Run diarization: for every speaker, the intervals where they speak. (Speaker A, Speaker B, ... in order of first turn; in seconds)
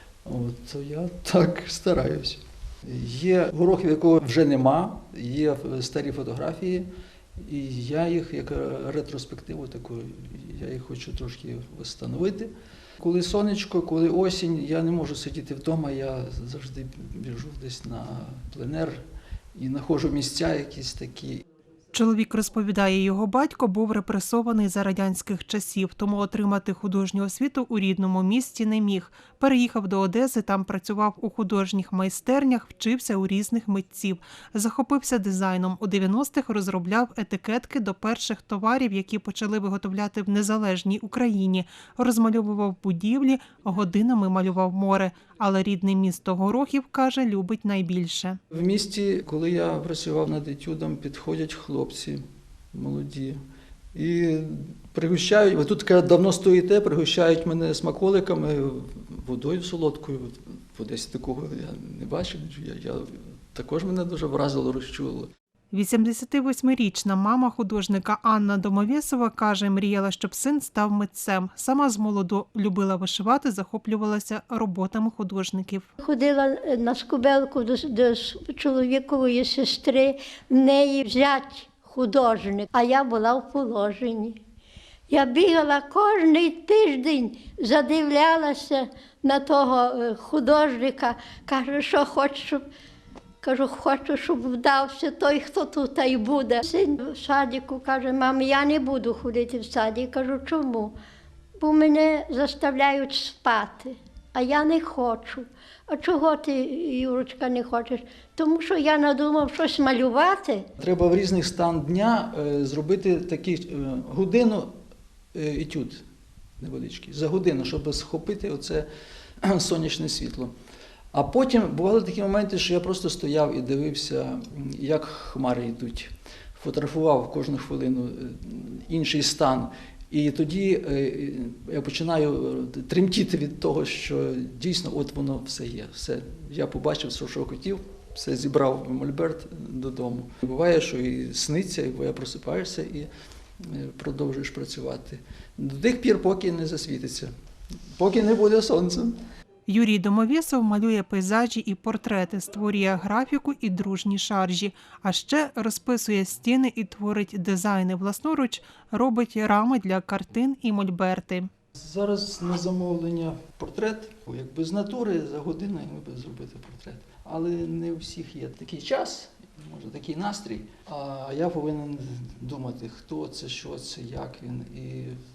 Speaker A: 0.3-6.9, 7.4-19.0, 19.6-21.4, 48.5-52.2, 52.7-53.4, 53.9-65.3, 110.8-114.7, 115.3-116.0, 116.6-118.9, 119.4-120.5, 121.1-143.1, 143.6-147.3, 148.0-149.2, 161.8-175.2
Speaker B: 21.9-48.4, 65.7-75.9, 149.7-161.5
Speaker C: 76.0-84.4, 85.1-92.7, 93.4-101.0, 101.6-110.7